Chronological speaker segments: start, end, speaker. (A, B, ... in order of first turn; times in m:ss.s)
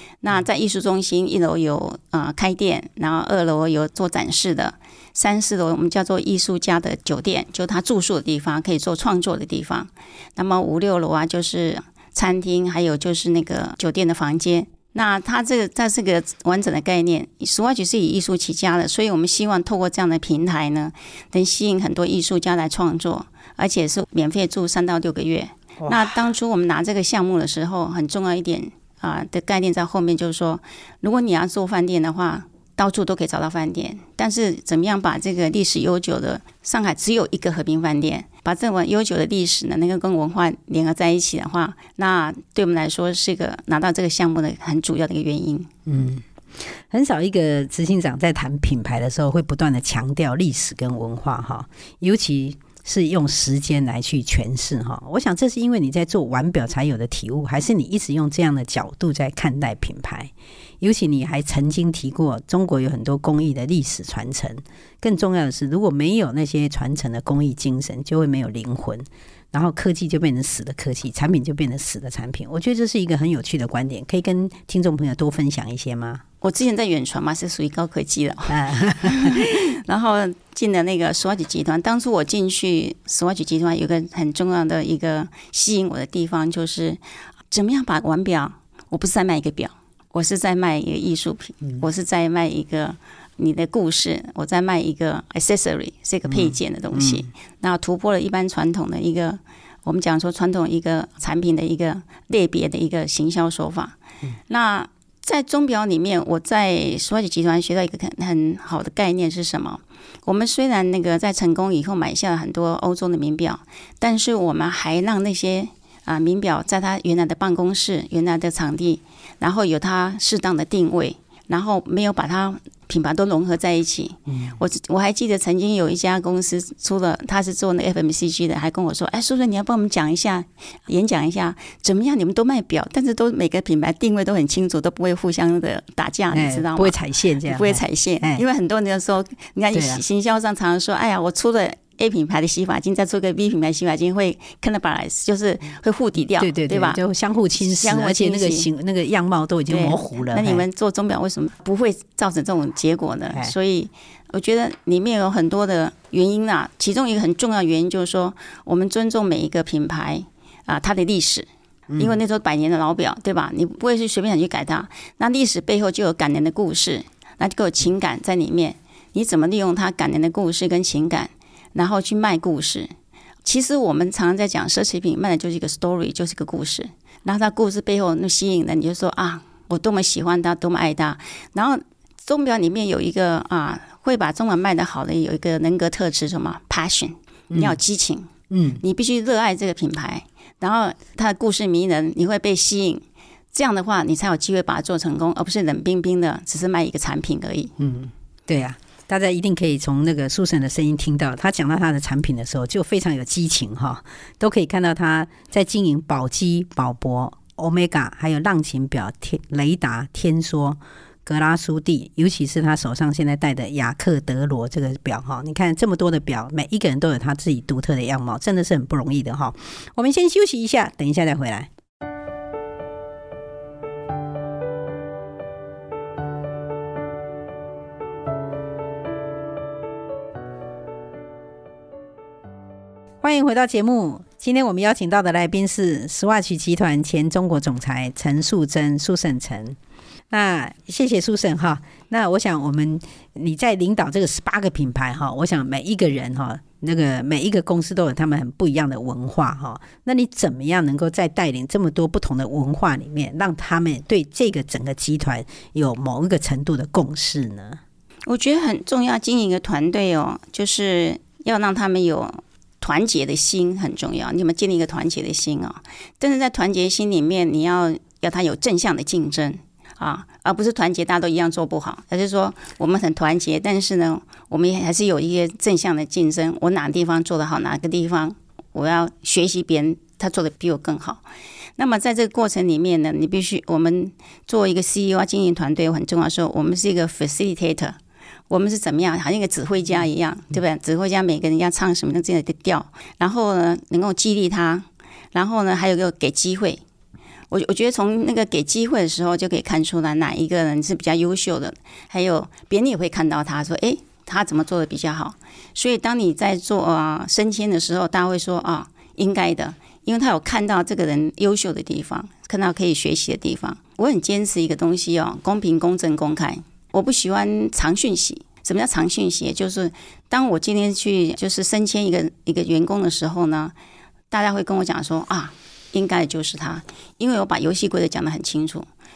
0:00.2-0:45.7 A
0:25.8-0:26.2 B
0:45.8-1:16.2 B
1:16.4-1:27.0 A
1:18.5-1:19.4 B
1:27.5-1:44.0 A
1:36.3-1:37.2 B
1:44.5-2:27.0 A
2:04.3-2:04.6 B
2:16.3-2:18.4 B
2:19.7-2:20.0 B
2:26.4-2:30.6 B
2:27.6-2:28.6 A
2:29.7-2:41.4 A
2:41.9-2:42.2 B
2:42.0-2:52.9 A
2:53.4-3:17.7 A
3:07.5-3:07.8 B
3:08.5-3:08.8 B
3:17.8-3:41.7 B
3:53.2-3:59.8 B
4:00.3-4:17.8 B
4:18.3-4:41.2 A
4:41.8-4:48.0 A
4:48.5-4:56.8 A
4:57.5-5:23.7 A
5:24.3-5:28.9 A